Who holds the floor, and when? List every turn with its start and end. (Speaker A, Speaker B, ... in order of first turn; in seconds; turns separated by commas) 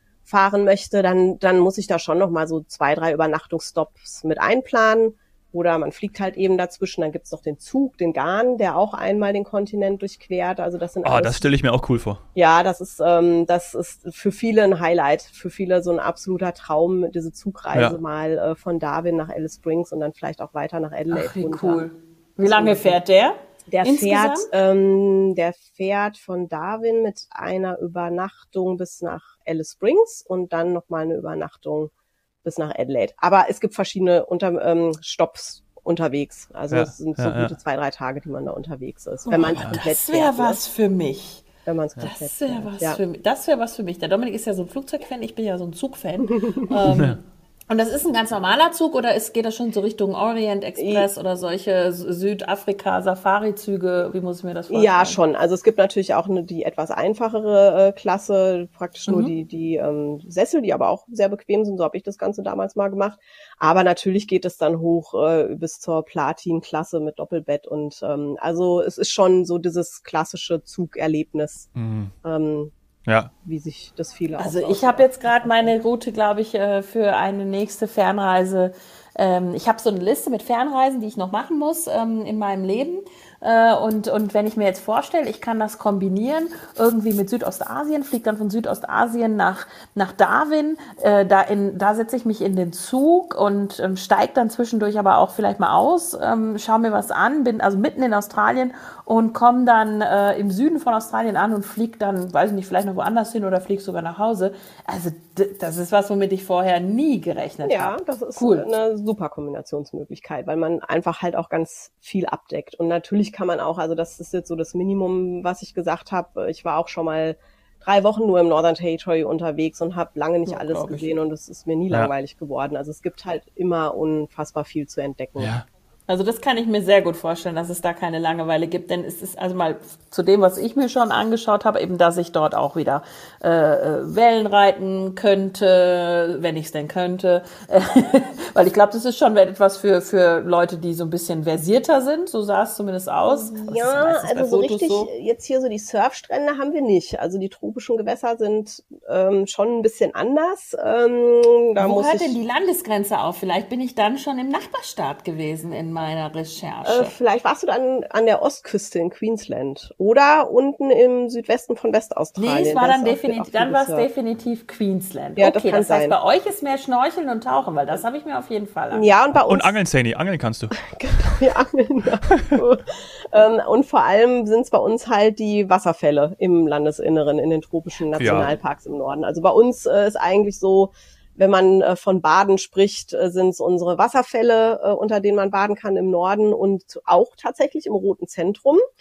Speaker A: 0.2-11.5, Speaker B: 11.0-12.2, Speaker A: 12.3-21.8, Speaker C: 21.1-24.5, Speaker A: 22.4-22.9, Speaker A: 23.7-31.9, Speaker A: 32.4-40.6, Speaker B: 36.7-37.5, Speaker C: 39.3-41.4, Speaker A: 41.6-43.0, Speaker C: 42.0-55.2, Speaker B: 46.9-47.1, Speaker A: 50.8-51.1, Speaker A: 54.7-71.7, Speaker C: 59.1-59.3, Speaker B: 71.7-72.1, Speaker A: 72.2-72.7, Speaker A: 73.4-75.7, Speaker C: 74.4-108.7, Speaker A: 107.6-125.5, Speaker C: 120.5-121.1, Speaker B: 125.4-125.6, Speaker C: 126.1-145.1, Speaker A: 143.3-152.3, Speaker C: 151.8-157.1, Speaker A: 156.8-164.1, Speaker C: 162.4-169.1, Speaker A: 165.4-166.2, Speaker A: 168.9-169.8, Speaker B: 169.4-170.8, Speaker A: 170.9-188.8, Speaker B: 178.2-178.5